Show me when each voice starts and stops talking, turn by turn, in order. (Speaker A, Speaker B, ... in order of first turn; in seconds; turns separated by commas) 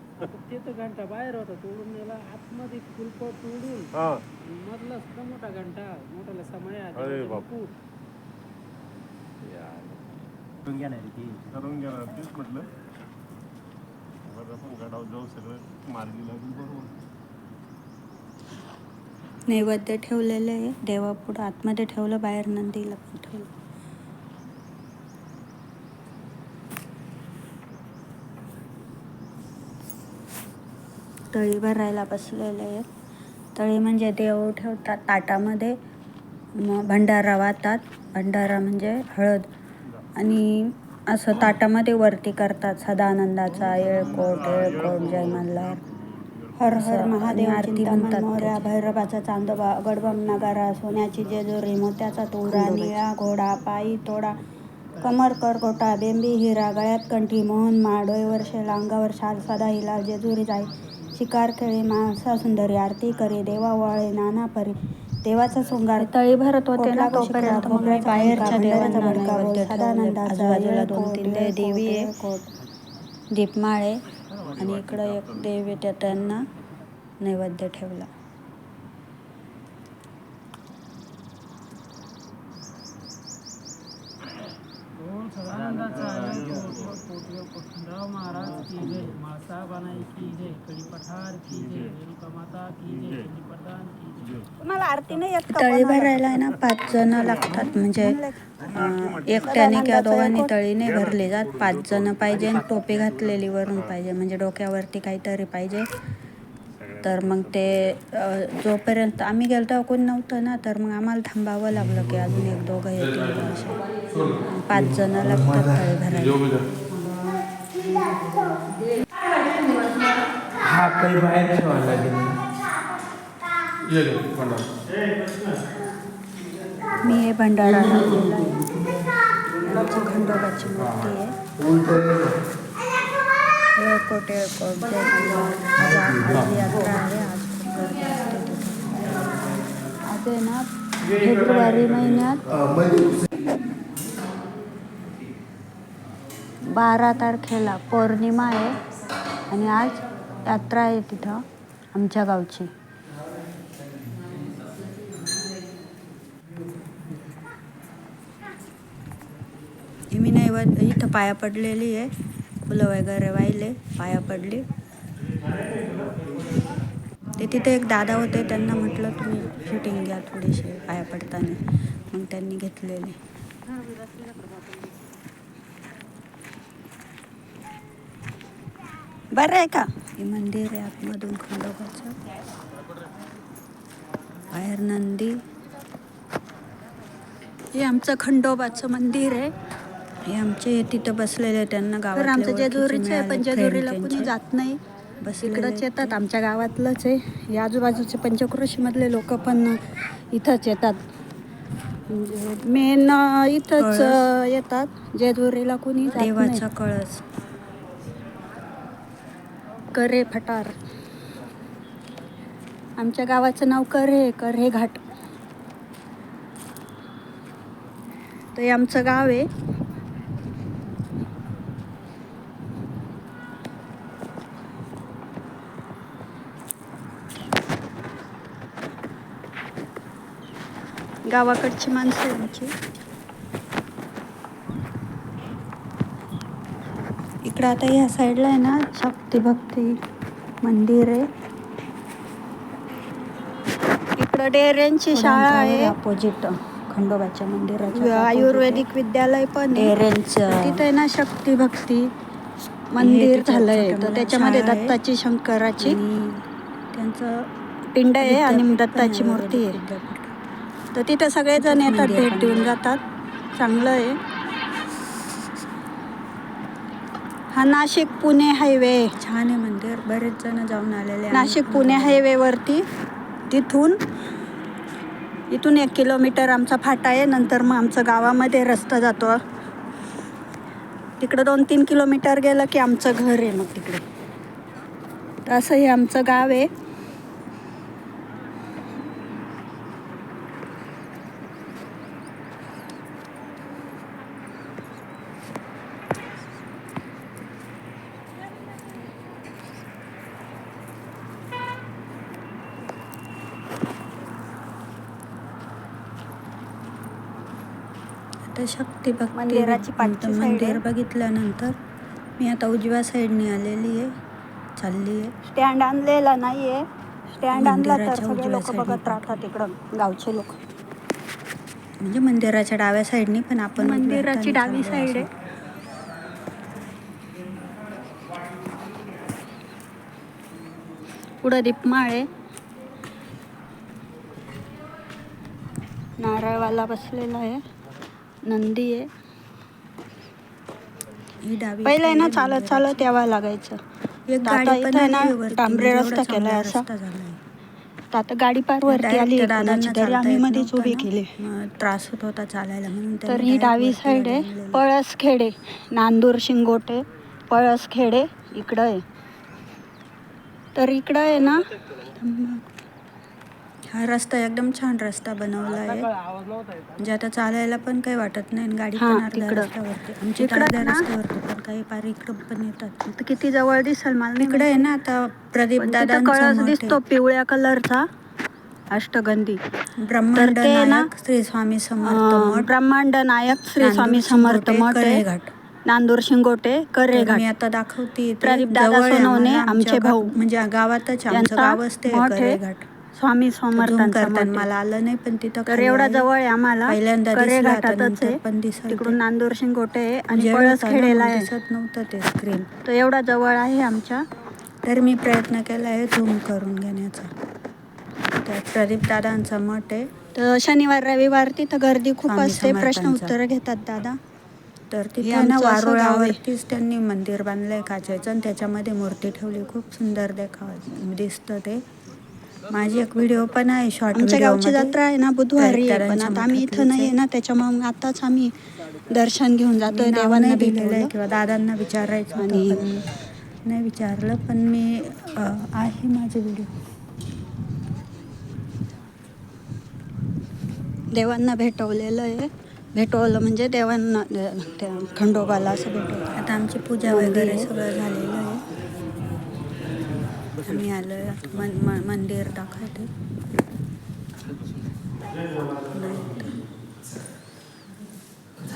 Speaker A: 0.2-3.9, Speaker B: 3.9-4.2, Speaker A: 4.4-7.7, Speaker B: 7.0-7.5, Speaker B: 9.4-9.9, Speaker B: 11.5-12.7, Speaker B: 14.2-16.9, Speaker C: 19.5-23.5, Speaker C: 31.3-32.9, Speaker C: 33.5-35.8, Speaker C: 36.6-39.5, Speaker C: 40.2-45.8, Speaker D: 43.5-45.5, Speaker B: 43.7-47.0, Speaker C: 46.6-54.4, Speaker D: 46.6-50.6, Speaker D: 52.5-53.0, Speaker D: 55.0-55.4, Speaker C: 55.1-62.5, Speaker D: 58.6-58.8, Speaker D: 59.4-59.8, Speaker D: 61.8-64.8, Speaker C: 63.1-63.8, Speaker D: 65.3-72.5, Speaker C: 65.5-72.1, Speaker A: 67.9-68.8, Speaker C: 73.3-74.0, Speaker B: 74.4-75.5, Speaker C: 74.6-76.5, Speaker C: 77.2-78.1, Speaker A: 85.0-94.3, Speaker B: 85.9-87.0, Speaker B: 88.7-89.1, Speaker B: 91.5-92.0, Speaker B: 92.9-93.3, Speaker B: 94.2-94.5, Speaker D: 94.6-96.3, Speaker C: 95.5-105.9, Speaker D: 96.9-100.5, Speaker B: 98.6-99.8, Speaker B: 100.8-102.5, Speaker B: 103.7-104.0, Speaker B: 106.8-108.0, Speaker C: 107.0-116.7, Speaker E: 120.7-122.4, Speaker E: 123.9-124.6, Speaker C: 127.0-128.9, Speaker C: 129.6-131.3, Speaker C: 133.8-139.1, Speaker C: 140.2-140.6, Speaker C: 141.2-142.4, Speaker D: 141.2-142.3, Speaker C: 146.7-148.8, Speaker C: 149.5-152.7, Speaker C: 160.1-162.1, Speaker C: 162.6-164.7, Speaker C: 167.4-173.2, Speaker D: 179.4-179.8, Speaker C: 179.9-182.2, Speaker C: 184.5-185.4, Speaker D: 187.7-189.5, Speaker C: 190.3-194.3, Speaker D: 192.1-194.8, Speaker C: 195.2-196.2, Speaker D: 195.4-201.0, Speaker D: 202.1-206.7, Speaker C: 203.8-204.2, Speaker C: 206.1-207.2, Speaker D: 209.9-210.7, Speaker D: 213.0-215.0, Speaker D: 218.6-219.5, Speaker D: 231.3-232.7, Speaker C: 237.4-240.0, Speaker C: 240.6-241.2, Speaker D: 244.2-245.9, Speaker C: 245.1-248.9, Speaker D: 247.9-252.1, Speaker C: 249.7-250.8, Speaker D: 252.9-256.0, Speaker C: 253.0-255.0, Speaker C: 255.8-257.5, Speaker D: 257.9-259.8, Speaker C: 258.2-260.4, Speaker D: 260.9-263.0, Speaker C: 261.6-262.8, Speaker D: 263.6-264.2, Speaker D: 267.5-269.1, Speaker C: 269.2-272.2, Speaker D: 271.3-272.9, Speaker D: 273.5-274.0, Speaker D: 275.5-279.4, Speaker D: 281.2-284.0, Speaker D: 285.5-286.7, Speaker C: 308.5-311.8, Speaker D: 309.3-310.8, Speaker C: 312.4-314.1, Speaker C: 314.8-315.3, Speaker D: 315.4-320.6, Speaker C: 317.5-319.4, Speaker C: 322.0-325.3, Speaker D: 323.8-325.3, Speaker D: 331.4-332.3, Speaker D: 336.2-337.6, Speaker D: 338.4-339.1, Speaker C: 341.4-343.1, Speaker D: 341.9-343.8, Speaker C: 344.3-347.4, Speaker D: 344.4-346.9, Speaker D: 348.1-351.4, Speaker C: 348.9-354.8, Speaker D: 353.3-359.0, Speaker D: 360.8-362.5, Speaker C: 363.9-366.1, Speaker A: 366.1-366.9, Speaker C: 367.0-373.0, Speaker D: 369.0-369.7, Speaker D: 370.4-371.1, Speaker D: 373.1-374.9, Speaker C: 374.4-377.0, Speaker D: 375.8-378.1, Speaker D: 378.9-379.6, Speaker C: 380.0-382.7, Speaker D: 380.4-381.1, Speaker D: 382.0-385.2, Speaker C: 383.8-385.5, Speaker D: 385.9-387.5, Speaker C: 387.1-392.9, Speaker D: 388.4-390.4, Speaker D: 391.3-392.6, Speaker D: 393.1-394.7, Speaker C: 393.7-396.3, Speaker D: 395.7-401.5, Speaker C: 396.9-399.2, Speaker C: 400.3-402.7, Speaker D: 402.9-404.2, Speaker C: 404.9-407.3, Speaker C: 408.4-410.1, Speaker D: 410.3-414.2, Speaker C: 412.3-413.4, Speaker C: 414.9-421.8, Speaker D: 415.2-416.4, Speaker C: 422.7-425.0, Speaker D: 424.1-428.5, Speaker C: 425.6-427.1, Speaker D: 429.1-431.1, Speaker C: 429.9-433.1, Speaker D: 432.4-432.9, Speaker C: 433.7-436.7, Speaker D: 441.1-446.2, Speaker C: 446.2-448.6, Speaker D: 447.0-447.7, Speaker C: 450.6-453.1, Speaker C: 455.8-456.6